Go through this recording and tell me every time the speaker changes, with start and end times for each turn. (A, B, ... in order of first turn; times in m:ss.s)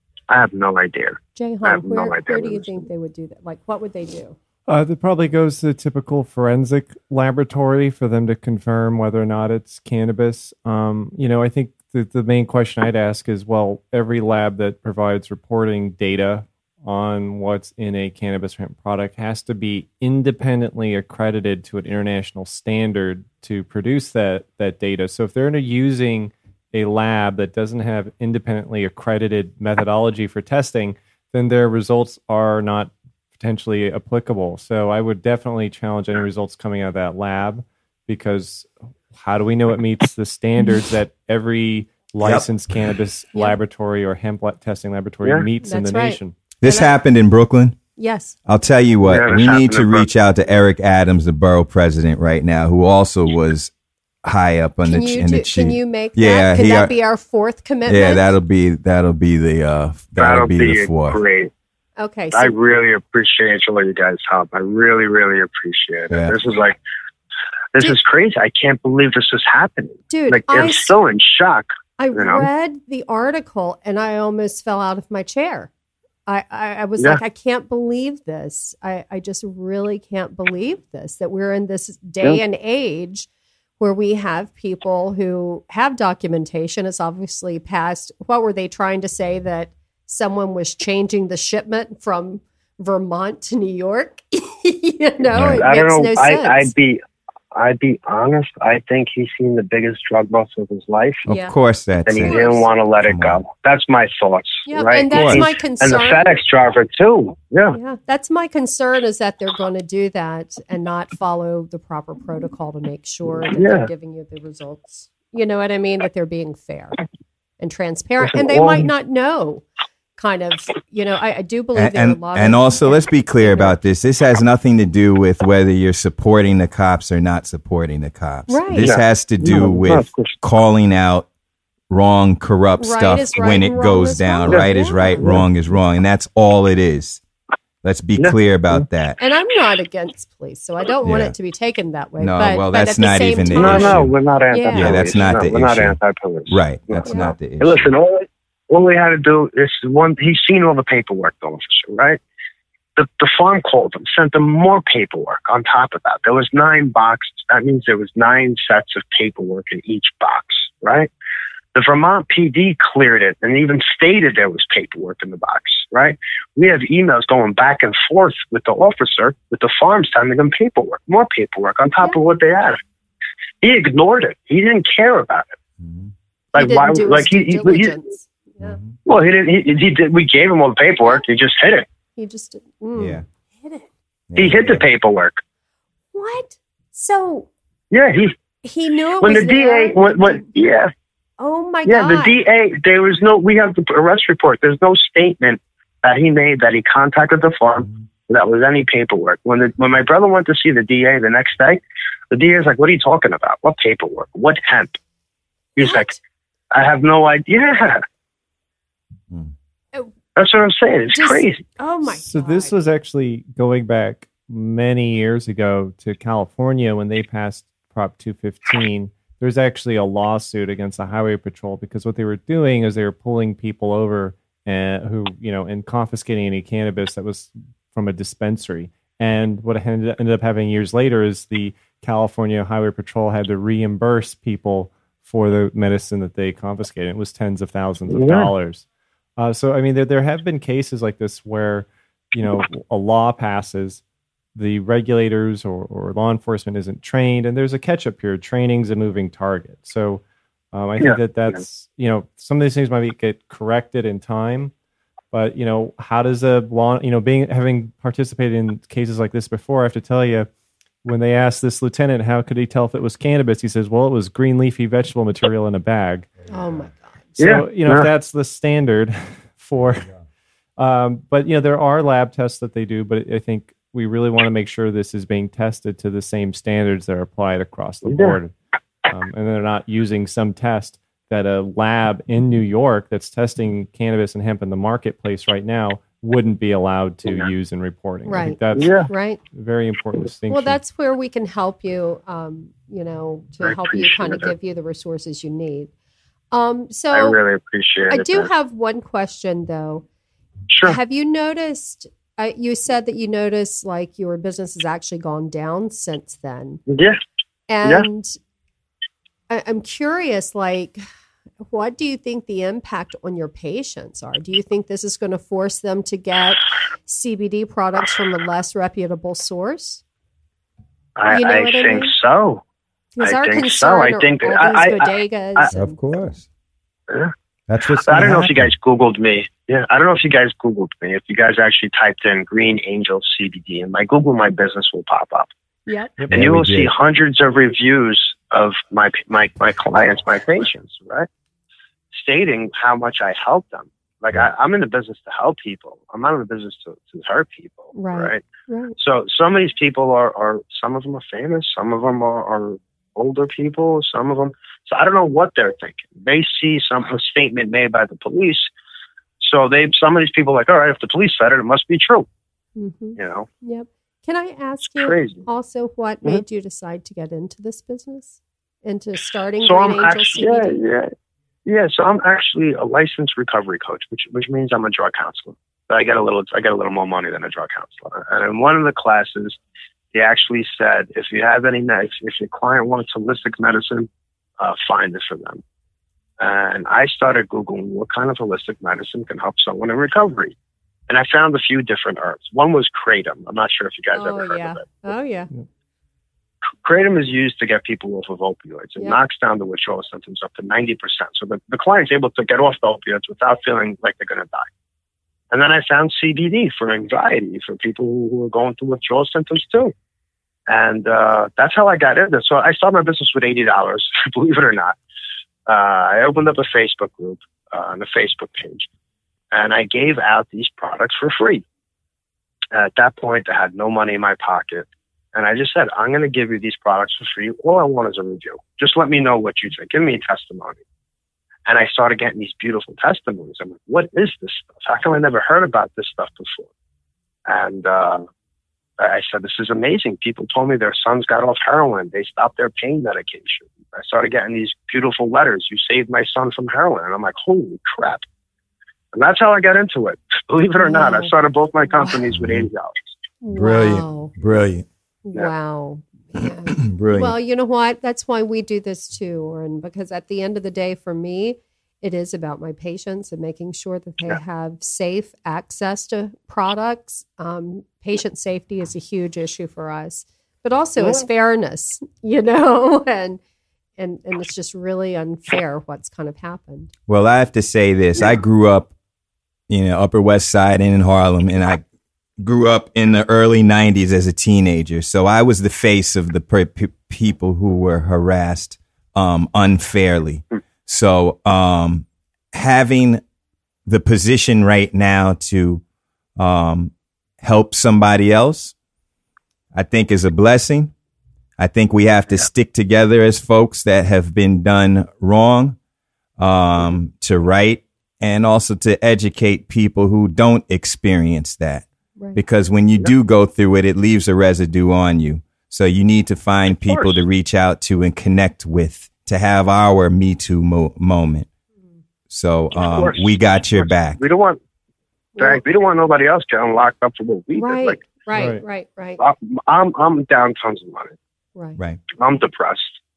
0:00.3-0:02.9 A
0:01.4-0:04.4 B
0:04.7-0:46.4 C
0:45.6-0:46.9 B
0:46.6-0:47.8 D
0:48.0-0:48.4 B
0:48.5-0:53.7 D
0:49.1-0:50.1 A
0:54.2-0:56.9 D
0:54.8-0:58.4 B
0:57.9-1:01.2 D
1:00.2-1:01.5 A
1:02.0-1:02.5 B
1:02.3-1:06.8 A
1:07.7-1:12.5 A
1:10.1-1:10.9 B
1:12.0-1:15.7 B
1:16.3-1:23.3 B
1:23.8-1:36.7 B
1:35.3-1:35.6 D
1:35.4-1:37.0 A
1:37.5-1:41.3 A
1:41.2-1:42.4 D
1:41.3-1:41.6 B
1:42.1-1:47.8 A
1:42.2-1:42.7 B
1:43.0-1:43.4 D
1:44.7-1:46.3 B
1:45.1-1:45.4 D
1:47.7-1:57.0 B
1:53.4-1:53.9 A
1:57.6-1:59.6 B
1:58.3-1:58.9 A
2:00.2-2:03.8 B
2:01.8-2:11.3 D
2:08.5-2:08.9 B
2:08.8-2:10.4 A
2:11.9-2:17.2 D
2:12.8-2:15.4 B
2:17.8-2:19.2 D
2:18.2-2:18.8 A
2:19.2-2:25.0 B
2:21.0-2:21.3 D
2:22.2-2:24.1 D
2:23.5-2:32.2 A
2:24.7-2:26.0 D
2:26.5-2:27.9 D
2:27.1-2:27.3 B
2:33.0-2:41.1 A
2:41.7-2:52.8 A
2:53.6-2:55.5 A
2:55.8-2:56.1 D
2:56.5-2:58.0 A
2:56.6-2:58.8 B
2:59.1-3:01.9 A
3:02.2-3:03.9 B
3:03.0-3:03.2 D
3:04.3-3:04.8 D
3:04.4-3:05.4 A
3:06.1-3:07.5 B
3:07.9-3:08.3 A
3:08.6-3:10.5 B
3:09.2-3:10.9 A
3:11.4-3:12.4 B
3:11.9-3:25.0 A
3:25.8-3:26.1 A
3:25.8-3:26.2 B
3:26.7-3:28.0 A
3:30.4-3:31.6 A
3:31.1-3:32.8 B
3:32.1-3:58.8 C
3:58.1-3:58.5 A
3:59.4-4:04.0 C
4:04.6-4:10.2 C
4:10.7-4:14.7 C
4:15.3-4:20.5 C
4:21.0-4:26.3 C
4:26.5-4:27.2 B
4:27.4-4:30.1 C
4:27.4-4:28.1 A
4:30.8-4:38.5 C
4:38.1-4:38.4 A
4:39.1-4:49.0 C
4:48.3-4:49.4 B
4:48.7-4:49.1 A
4:49.5-4:50.8 C
4:50.5-4:55.9 B
4:53.6-4:54.5 A
4:56.5-4:57.4 B
4:57.1-4:58.5 A
4:58.1-5:00.0 B
5:00.7-5:01.0 A
5:00.8-5:06.8 B
5:06.9-5:07.2 A
5:07.7-5:08.4 B
5:09.5-5:11.0 B
5:11.7-5:20.0 B
5:21.2-5:22.6 A
5:21.3-5:22.1 B
5:23.2-5:26.0 B
5:23.2-5:25.7 A
5:25.7-5:26.4 D
5:27.7-5:28.7 D
5:27.9-5:35.5 A
5:35.9-5:36.1 B
5:36.3-5:36.9 D
5:36.3-5:41.3 A
5:42.1-5:48.4 A
5:47.9-5:49.0 B
5:49.0-5:58.7 A
5:59.4-6:02.3 A
6:02.8-6:10.8 B
6:03.2-6:03.5 A
6:05.0-6:05.4 A
6:09.6-6:11.1 A
6:11.7-6:19.6 A
6:20.1-6:25.6 A
6:26.4-6:30.6 A
6:31.1-6:35.0 A
6:34.1-6:35.5 B
6:36.8-6:44.7 A
6:45.5-6:49.9 A
6:50.7-6:55.0 A
6:55.7-6:58.9 A
6:59.5-7:01.6 A
7:02.7-7:10.8 A
7:11.7-7:16.7 A
7:17.5-7:18.2 A
7:19.0-7:28.2 A
7:29.1-7:33.1 A
7:30.8-7:31.3 B
7:31.9-7:32.2 B
7:32.4-7:32.7 D
7:33.4-7:34.3 B
7:33.5-7:34.9 D
7:35.2-7:53.4 B
7:36.8-7:37.3 D
7:54.0-7:56.9 B
7:57.1-7:58.9 D
7:59.7-8:01.8 D
8:02.4-8:13.2 D
8:13.9-8:15.8 D
8:16.4-8:18.7 D
8:19.7-8:20.9 D
8:21.6-8:25.8 D
8:26.4-8:41.5 D
8:36.8-8:37.2 A
8:42.3-8:44.2 D
8:42.7-8:44.6 A
8:45.4-8:45.6 B
8:45.4-8:48.1 A
8:47.6-8:49.2 B
8:48.3-8:48.6 C
8:49.2-8:51.2 A
8:51.6-8:51.8 B
8:52.2-8:53.0 A